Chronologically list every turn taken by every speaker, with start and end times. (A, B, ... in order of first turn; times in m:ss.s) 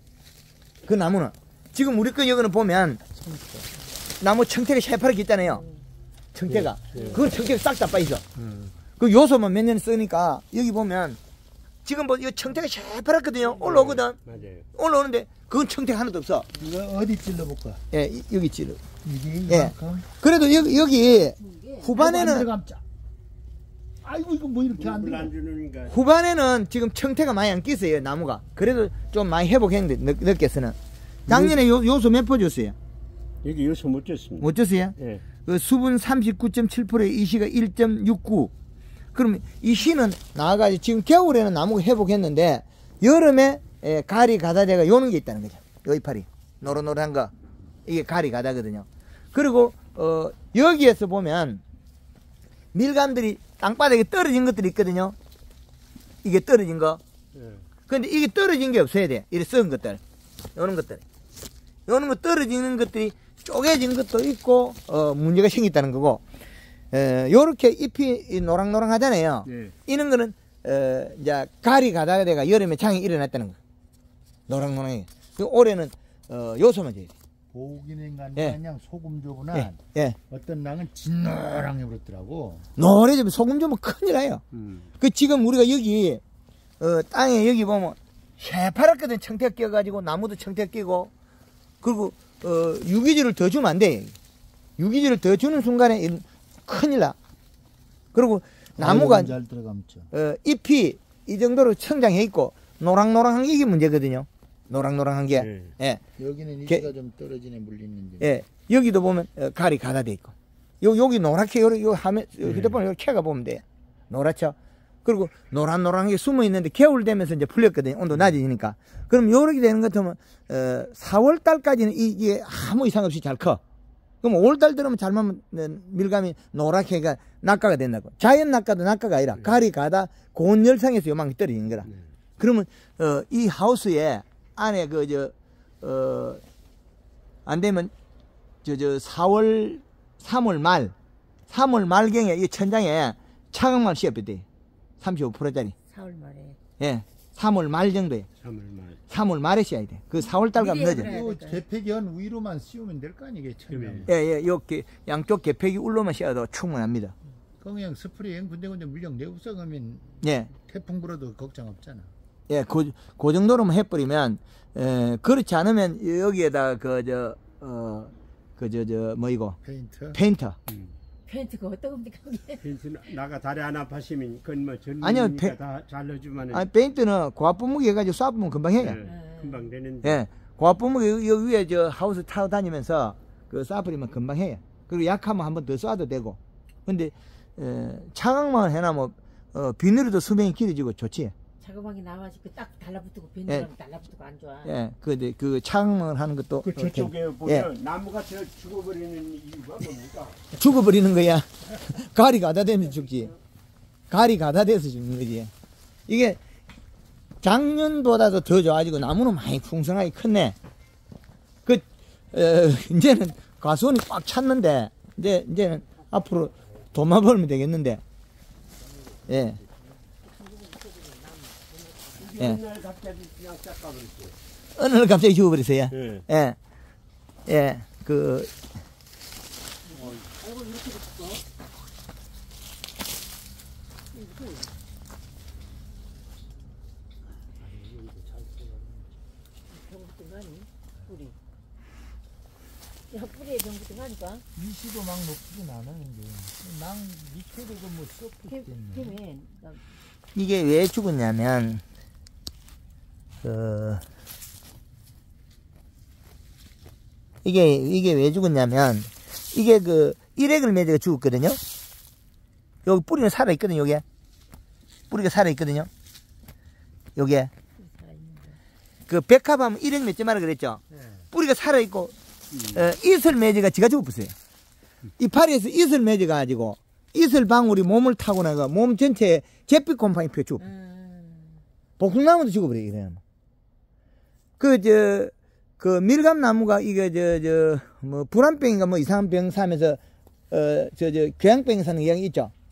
0:00.8-0:03.2 A
0:04.2-0:05.7 A
0:06.3-0:08.2 A
0:06.5-0:07.2 B
0:08.4-0:08.7 B
0:09.0-0:11.2 A
0:11.8-0:14.2 A
0:13.6-0:14.7 B
0:14.8-0:16.5 A
0:16.5-0:17.8 C
0:17.9-0:18.8 A
0:19.0-0:20.1 C
0:19.5-0:22.5 A
0:21.9-0:22.8 C
0:24.0-0:25.3 C
0:24.8-0:26.0 B
0:25.9-0:32.8 A
0:31.3-0:31.6 B
0:33.4-0:35.2 B
0:34.4-0:35.0 A
0:35.5-0:38.5 A
0:39.1-0:47.3 A
0:47.8-0:51.6 A
0:52.7-0:55.2 A
0:56.2-0:57.0 A
0:57.4-0:57.6 B
0:57.9-1:00.0 A
1:00.6-1:01.0 A
1:01.9-1:06.2 A
1:06.9-1:13.6 A
1:09.5-1:09.7 B
1:14.5-1:17.1 A
1:17.5-1:22.7 C
1:19.5-1:20.2 A
1:22.8-1:24.4 A
1:24.6-1:24.9 B
1:25.0-1:26.2 A
1:26.8-1:31.1 A
1:31.8-1:34.2 A
1:34.8-1:37.2 A
1:38.1-1:39.4 A
1:38.8-1:40.1 C
1:40.1-1:46.0 A
1:45.4-1:45.7 B
1:46.2-1:48.4 C
1:48.2-2:03.6 A
1:52.4-1:52.8 B
2:04.2-2:11.9 A
2:12.4-2:16.4 A
2:17.5-2:17.9 A
2:18.6-2:20.9 A
2:21.5-2:24.4 A
2:25.0-2:25.8 A
2:25.9-2:26.6 D
2:26.8-2:28.3 A
2:28.4-2:29.0 B
2:29.1-2:31.2 A
2:30.3-2:31.6 D
2:31.0-2:34.1 C
2:33.7-2:34.1 B
2:34.1-2:37.1 A
2:37.6-2:42.1 C
2:40.2-2:40.5 A
2:42.5-2:49.6 A
2:49.6-2:50.2 C
2:50.1-2:50.6 A
2:50.7-2:51.0 B
2:51.3-2:52.6 D
2:52.6-2:56.7 B
2:55.0-2:55.6 A
2:56.5-2:59.0 A
2:58.8-3:00.2 B
2:59.1-2:59.6 D
3:00.0-3:11.3 A
3:11.6-3:14.7 D
3:14.6-3:17.7 A
3:16.6-3:20.5 B
3:20.6-3:23.3 A
3:24.1-3:25.5 A
3:26.1-3:26.4 A
3:27.4-3:30.6 A
3:31.7-3:38.0 A
3:39.3-3:39.6 A
3:40.2-3:42.4 D
3:42.2-3:44.4 B
3:44.8-3:46.6 A
3:45.9-3:46.3 B
3:47.5-3:48.5 A
3:49.9-3:51.4 D
3:54.2-3:54.7 D
3:57.6-3:59.2 C
3:59.7-4:01.4 D
4:03.1-4:04.4 D
4:04.5-4:09.2 C
4:08.5-4:09.8 D
4:10.4-4:11.8 A
4:13.4-4:14.0 A
4:17.4-4:21.6 A
4:22.8-4:24.0 A
4:25.1-4:25.9 A
4:27.2-4:27.5 A
4:27.8-4:28.6 D
4:29.1-4:32.1 A
4:32.5-4:32.9 B
4:32.7-4:34.4 A
4:35.2-4:40.8 A
4:40.7-4:41.6 D
4:42.0-4:43.2 A
4:44.6-4:52.5 A